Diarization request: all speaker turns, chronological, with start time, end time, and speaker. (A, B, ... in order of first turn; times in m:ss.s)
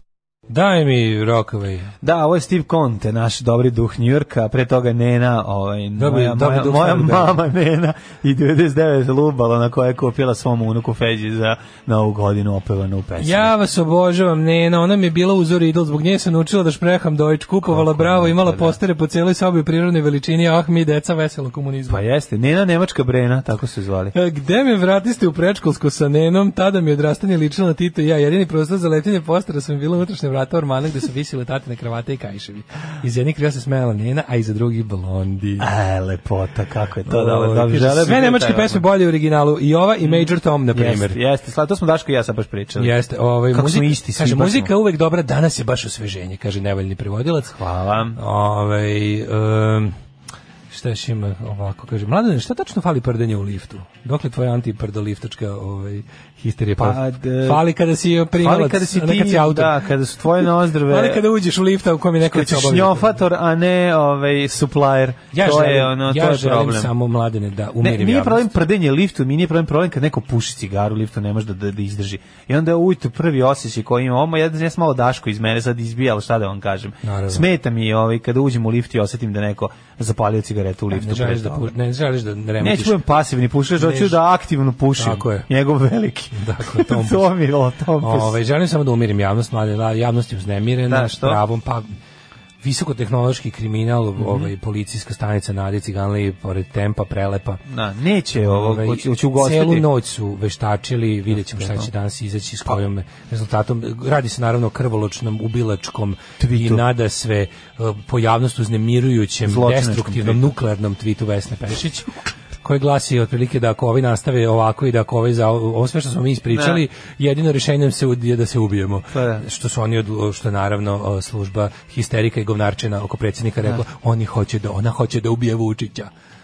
0:00.5-0:01.9 A
0:02.0-0:13.5 B
0:06.0-0:07.4 A
0:13.2-0:22.0 A
0:17.7-0:18.8 B
0:21.9-0:24.1 B
0:24.1-0:35.7 A
0:35.6-0:38.8 B
0:37.1-0:41.2 A
0:40.0-0:42.9 B
0:42.8-0:47.5 A
0:43.5-0:44.7 B
0:47.5-0:48.2 B
0:48.2-0:49.9 A
0:50.7-0:59.7 A
0:56.8-0:57.6 B
0:58.4-1:01.2 B
1:00.9-1:03.1 A
1:02.2-1:06.9 B
1:05.3-1:08.5 A
1:07.8-1:21.7 B
1:17.0-1:17.4 A
1:20.9-1:23.0 A
1:22.6-1:28.3 B
1:23.8-1:24.2 A
1:25.0-1:25.5 A
1:26.3-1:27.3 A
1:28.0-1:31.9 A
1:30.9-1:31.4 B
1:32.6-1:37.6 A
1:34.2-1:34.5 B
1:37.7-1:39.8 B
1:38.4-1:52.1 A
1:41.4-1:41.9 B
1:46.4-1:46.8 B
1:49.4-1:50.5 B
1:52.6-2:06.1 A
1:56.5-1:56.8 B
1:59.1-1:59.4 B